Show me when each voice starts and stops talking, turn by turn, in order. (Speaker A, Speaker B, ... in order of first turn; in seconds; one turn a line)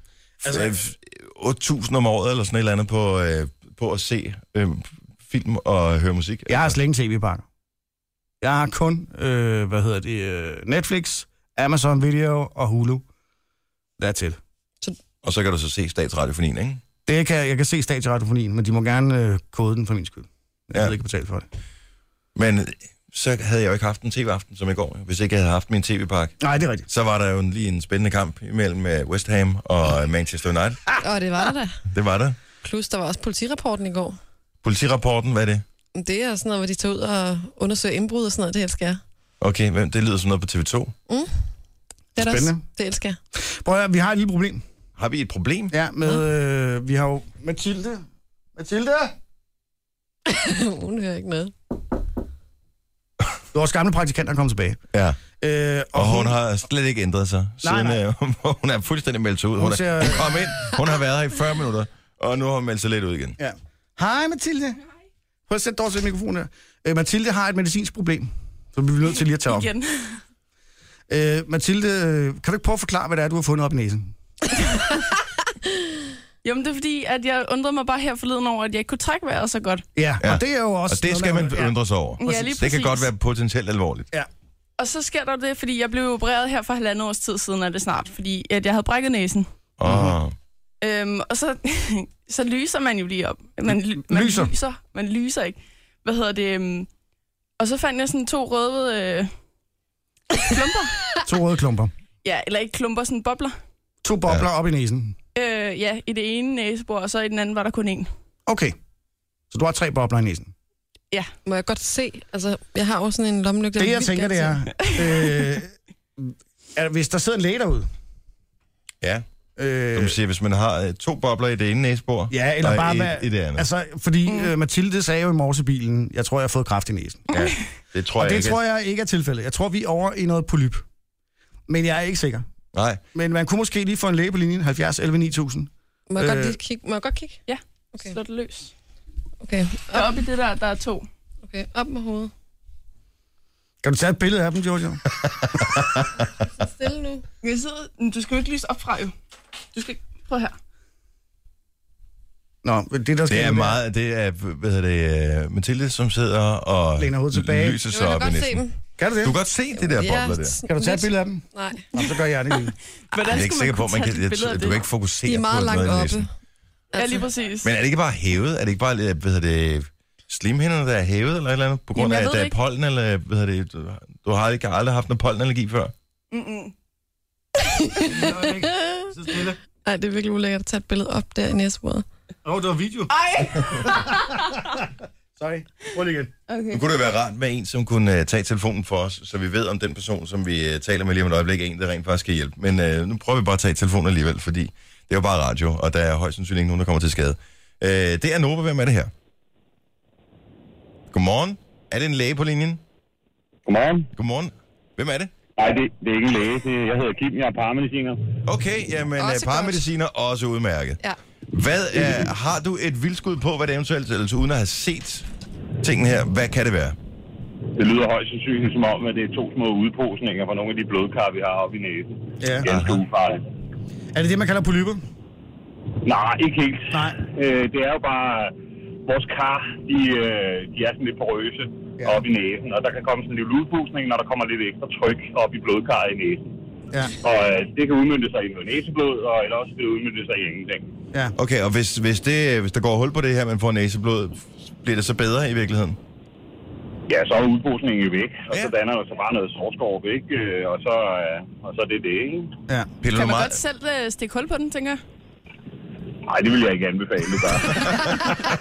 Speaker A: 0.4-0.8
Speaker B: 0.4-6.8
Speaker A: 6.5-7.5
Speaker A: 8.4-13.1
Speaker A: 14.0-14.4
Speaker B: 15.2-16.8
Speaker A: 17.1-21.5
Speaker B: 22.4-30.8
Speaker A: 26.4-26.9
Speaker C: 31.0-31.8
Speaker B: 31.9-32.4
Speaker C: 32.6-34.2
Speaker B: 34.6-35.6
Speaker C: 36.0-39.0
Speaker B: 39.4-40.9
Speaker C: 42.1-43.2
Speaker A: 42.2-42.6
Speaker A: 43.4-44.6
Speaker B: 45.0-45.8
Speaker A: 45.7-48.0
Speaker A: 48.6-49.1
Speaker C: 50.3-51.5
Speaker A: 53.5-54.8
Speaker B: 54.9-55.2
Speaker A: 55.4-56.4
Speaker B: 55.9-63.4
Speaker A: 57.6-58.0
Speaker A: 59.6-60.3
Speaker A: 63.4-64.8
Speaker A: 65.5-69.7
Speaker D: 69.5-70.2
Speaker A: 71.1-74.1
Speaker D: 76.4-79.9
Speaker A: 80.0-82.6
Speaker B: 80.2-84.1
Speaker D: 82.2-83.1
Speaker D: 84.8-89.5
Speaker B: 89.8-90.4
Speaker A: 89.9-90.1
Speaker D: 90.8-96.9
Speaker A: 94.1-94.5
Speaker D: 97.6-99.3
Speaker D: 100.4-101.0
Speaker A: 101.2-101.9
Speaker D: 102.2-103.6
Speaker A: 104.0-105.2
Speaker D: 105.3-108.1
Speaker A: 108.5-108.8
Speaker A: 109.5-110.5
Speaker C: 111.5-114.6
Speaker A: 113.8-117.9
Speaker A: 119.6-120.2
Speaker B: 119.9-123.7
Speaker A: 122.3-127.2
Speaker B: 127.3-128.6
Speaker A: 128.2-130.8
Speaker A: 131.7-132.5
Speaker B: 132.7-133.0
Speaker A: 133.1-136.6
Speaker C: 136.1-137.4
Speaker D: 137.5-138.7
Speaker C: 139.4-140.1
Speaker D: 139.9-141.1
Speaker C: 141.4-142.3
Speaker A: 143.8-145.0
Speaker B: 145.2-145.9
Speaker C: 146.5-147.2
Speaker D: 147.4-149.1
Speaker D: 149.7-150.6
Speaker A: 152.6-153.8
Speaker B: 153.3-158.7
Speaker A: 157.0-157.8
Speaker C: 157.9-158.8
Speaker A: 159.0-159.3
Speaker B: 159.2-160.6
Speaker C: 159.8-161.9
Speaker A: 160.7-162.8
Speaker D: 163.1-164.9
Speaker B: 163.2-166.2
Speaker C: 165.2-166.3
Speaker D: 166.9-167.7
Speaker C: 167.0-167.3
Speaker B: 167.6-175.9
Speaker D: 172.0-172.6
Speaker D: 176.3-176.7
Speaker C: 177.7-179.1
Speaker A: 178.1-179.6
Speaker C: 179.8-182.1
Speaker A: 182.4-183.2
Speaker D: 183.1-184.4
Speaker A: 183.8-186.3
Speaker D: 186.5-186.8
Speaker B: 186.7-199.1
Speaker B: 201.1-202.8
Speaker E: 203.7-204.1
Speaker B: 204.2-205.3
Speaker E: 205.6-208.3
Speaker B: 208.5-211.0
Speaker C: 209.2-209.8
Speaker B: 211.5-215.3
Speaker B: 215.8-217.0
Speaker E: 217.8-223.4
Speaker A: 222.4-222.7
Speaker B: 222.6-223.0
Speaker A: 224.1-225.0
Speaker E: 226.0-236.5
Speaker A: 226.9-227.2
Speaker E: 237.2-240.9
Speaker B: 241.4-246.0
Speaker E: 247.1-252.5
Speaker B: 253.0-253.6
Speaker D: 253.1-255.0
Speaker E: 256.3-258.3
Speaker B: 257.8-258.1